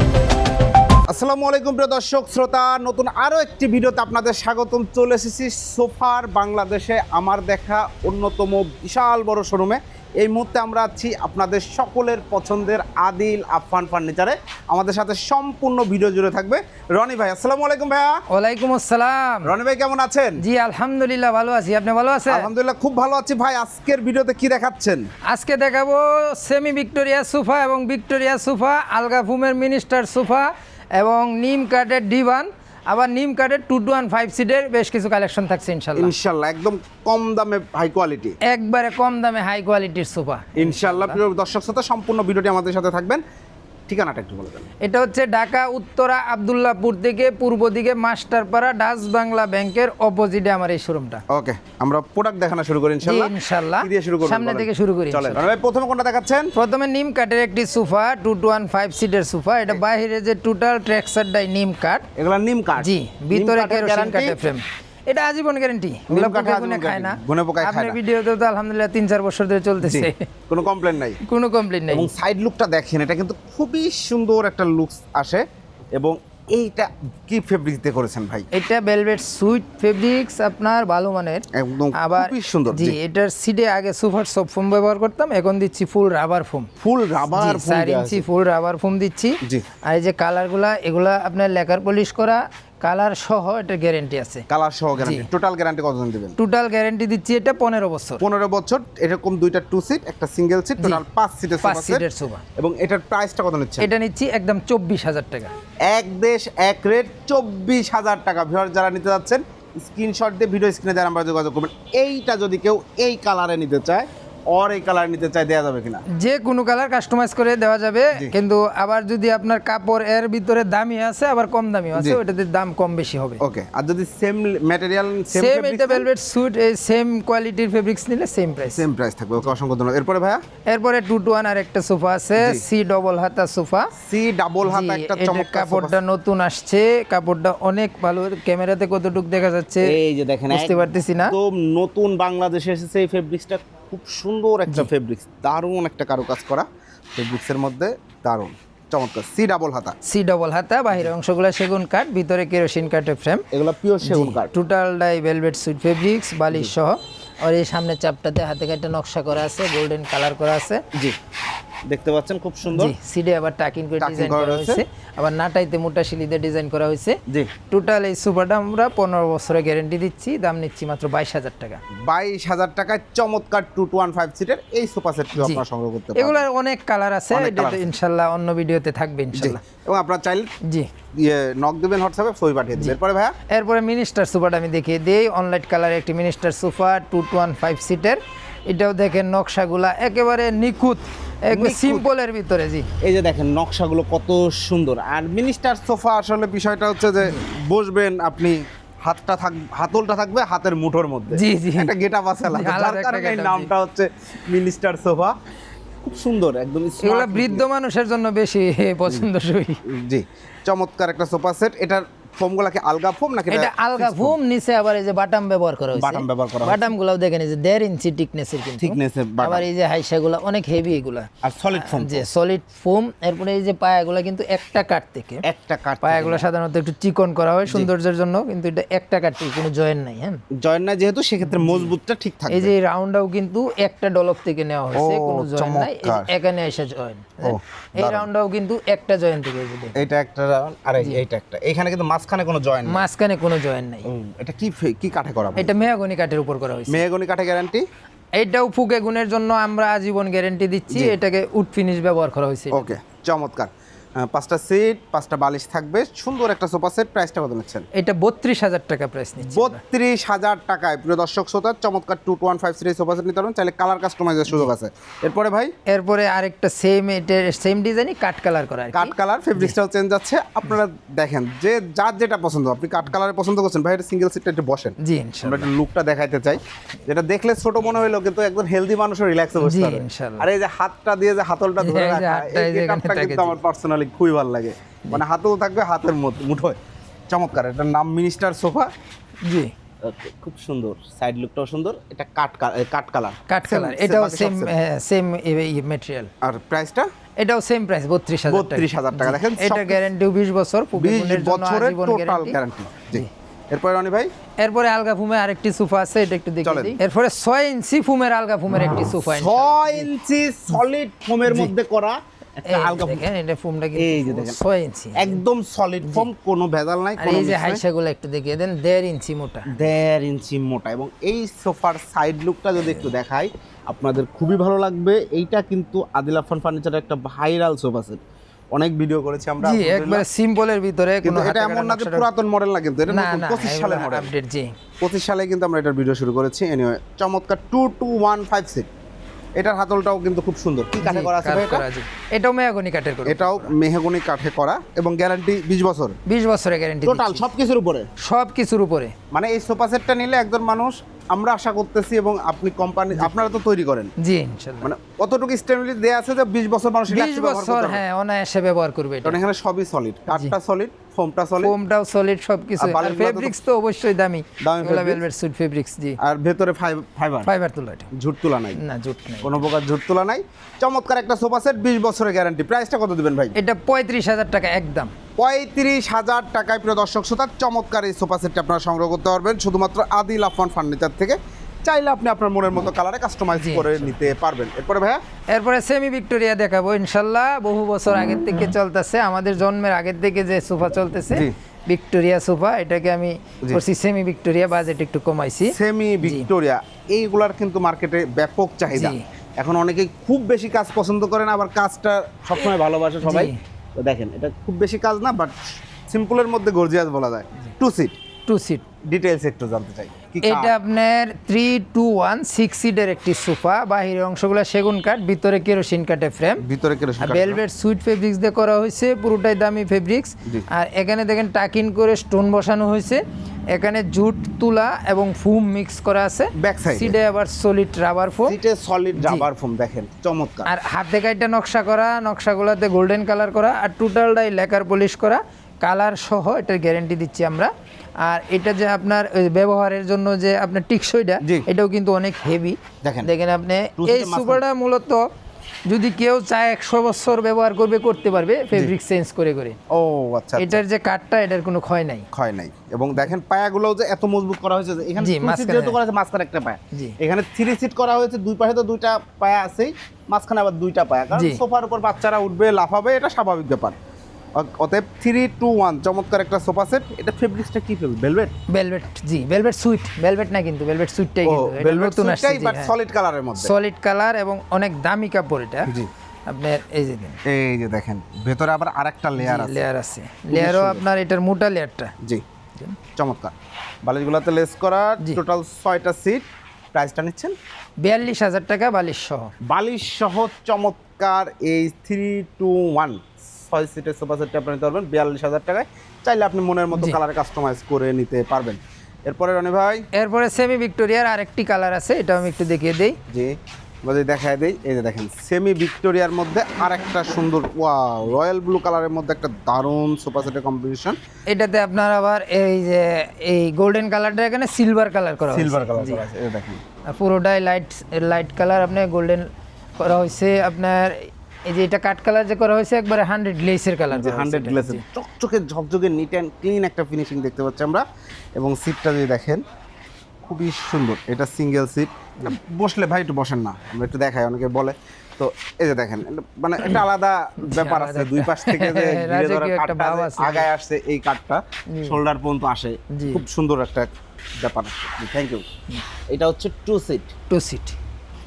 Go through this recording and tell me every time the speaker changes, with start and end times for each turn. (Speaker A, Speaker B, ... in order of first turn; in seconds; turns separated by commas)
Speaker A: 1.1-18.2, Speaker B: 18.3-19.5, Speaker A: 19.5-20.4, Speaker B: 20.4-22.5, Speaker A: 22.3-25.0, Speaker B: 25.3-36.1, Speaker A: 36.0-38.4, Speaker B: 38.5-41.2, Speaker A: 40.6-43.2, Speaker A: 43.9-44.7, Speaker B: 44.8-51.2, Speaker A: 51.3-56.5, Speaker B: 53.0-55.4, Speaker B: 56.5-62.0, Speaker A: 62.2-64.4, Speaker B: 62.8-70.3, Speaker A: 66.1-68.0, Speaker A: 69.8-71.2, Speaker B: 71.2-72.1, Speaker A: 71.9-75.4, Speaker A: 76.0-78.5, Speaker B: 78.5-81.5, Speaker A: 81.5-83.0, Speaker B: 82.0-86.7, Speaker A: 86.8-88.2, Speaker B: 87.3-94.5, Speaker A: 94.5-96.4, Speaker B: 95.0-95.3, Speaker B: 96.4-98.2, Speaker A: 98.2-102.0, Speaker B: 101.6-102.4, Speaker A: 102.6-103.9, Speaker B: 103.8-105.5, Speaker A: 105.9-116.0, Speaker B: 116.1-123.4, Speaker A: 123.4-126.1, Speaker B: 125.3-128.8, Speaker A: 128.7-130.4, Speaker B: 130.7-133.9, Speaker A: 132.4-132.7, Speaker A: 134.0-136.0, Speaker B: 134.7-139.9, Speaker A: 139.8-149.9, Speaker B: 140.5-141.3, Speaker B: 150.1-153.4, Speaker A: 153.5-154.5, Speaker B: 154.1-160.8, Speaker A: 161.9-163.0, Speaker B: 162.7-167.2, Speaker A: 164.0-164.8, Speaker B: 167.7-171.8, Speaker A: 172.1-176.4, Speaker B: 175.4-175.6, Speaker B: 176.2-179.6, Speaker A: 177.3-177.9, Speaker A: 179.3-180.5, Speaker B: 180.6-180.9, Speaker A: 181.2-183.3, Speaker B: 183.5-192.9, Speaker A: 191.5-192.1, Speaker A: 193.0-205.3, Speaker B: 201.3-203.7, Speaker A: 206.0-207.7, Speaker B: 207.0-209.8, Speaker A: 209.9-214.4, Speaker B: 213.5-225.4, Speaker A: 215.9-216.9, Speaker A: 218.8-219.7, Speaker A: 221.4-222.2, Speaker A: 225.4-226.4, Speaker B: 226.0-230.4, Speaker A: 230.6-232.7, Speaker B: 231.5-231.9, Speaker B: 232.5-240.1, Speaker A: 234.9-236.3, Speaker A: 237.4-238.3, Speaker A: 240.0-243.0, Speaker B: 242.9-244.1, Speaker A: 244.1-245.7, Speaker B: 245.6-247.0, Speaker A: 246.9-247.8, Speaker B: 248.4-252.9, Speaker A: 250.9-251.2, Speaker A: 252.7-257.9, Speaker B: 257.9-259.8, Speaker A: 259.4-265.7, Speaker B: 265.9-269.7, Speaker A: 268.9-286.8, Speaker B: 275.0-275.7, Speaker B: 279.6-280.5, Speaker B: 281.8-283.6, Speaker A: 287.3-288.9, Speaker B: 289.4-289.7, Speaker A: 290.0-294.8, Speaker B: 293.5-296.3, Speaker A: 296.4-297.1, Speaker B: 297.4-302.6, Speaker A: 298.5-300.1, Speaker A: 301.0-304.3, Speaker B: 304.6-310.1, Speaker A: 306.6-307.0, Speaker A: 308.9-313.2, Speaker B: 312.7-315.4, Speaker A: 314.0-314.6, Speaker A: 315.2-317.8, Speaker B: 317.2-319.7, Speaker A: 319.7-328.2, Speaker A: 328.8-330.2, Speaker B: 329.6-332.3, Speaker A: 331.2-334.3, Speaker B: 333.1-334.7, Speaker A: 335.0-338.9, Speaker A: 339.6-341.8, Speaker B: 341.0-343.7, Speaker A: 343.3-346.1, Speaker B: 346.3-347.4, Speaker A: 347.1-348.1, Speaker B: 348.2-349.1, Speaker A: 349.3-354.1, Speaker B: 354.2-354.9, Speaker A: 354.8-358.0, Speaker B: 357.1-359.4, Speaker A: 359.2-361.7, Speaker B: 361.6-366.2, Speaker A: 362.8-363.6, Speaker A: 364.6-365.2, Speaker A: 366.2-367.5, Speaker B: 367.5-368.1, Speaker A: 368.1-368.8, Speaker B: 368.8-369.7, Speaker A: 369.4-373.6, Speaker B: 373.6-375.1, Speaker A: 375.4-385.2, Speaker B: 383.6-384.4, Speaker B: 385.5-396.5, Speaker A: 395.7-405.6, Speaker B: 398.9-399.2, Speaker B: 403.2-403.6, Speaker A: 406.1-408.1, Speaker B: 408.5-408.8, Speaker A: 409.1-410.7, Speaker B: 410.4-416.6, Speaker A: 416.6-417.6, Speaker B: 417.2-428.6, Speaker A: 426.6-427.1, Speaker A: 428.4-430.7, Speaker B: 429.2-429.5, Speaker B: 430.7-437.7, Speaker B: 438.2-445.2, Speaker A: 443.0-443.3, Speaker A: 444.0-444.6, Speaker B: 445.9-449.8, Speaker A: 449.9-450.8, Speaker B: 450.6-452.3, Speaker A: 452.3-463.9, Speaker B: 455.2-456.0, Speaker B: 461.3-461.6, Speaker A: 464.6-468.5, Speaker B: 468.7-472.9, Speaker A: 471.4-473.7, Speaker B: 473.6-475.9, Speaker B: 476.5-477.4, Speaker A: 477.5-479.8, Speaker B: 479.4-482.1, Speaker A: 480.5-481.1, Speaker A: 483.2-483.5, Speaker A: 484.1-487.6, Speaker B: 488.0-489.5, Speaker A: 489.6-500.0, Speaker B: 496.9-497.2, Speaker B: 500.1-503.2, Speaker A: 503.3-511.2, Speaker B: 511.5-516.2, Speaker A: 515.5-516.8, Speaker B: 517.1-519.5, Speaker B: 520.0-525.0, Speaker A: 524.1-528.0, Speaker A: 528.6-529.6, Speaker A: 530.5-545.6, Speaker B: 537.6-540.7, Speaker B: 541.9-542.2, Speaker B: 543.1-543.4, Speaker A: 546.3-547.3, Speaker B: 547.5-548.0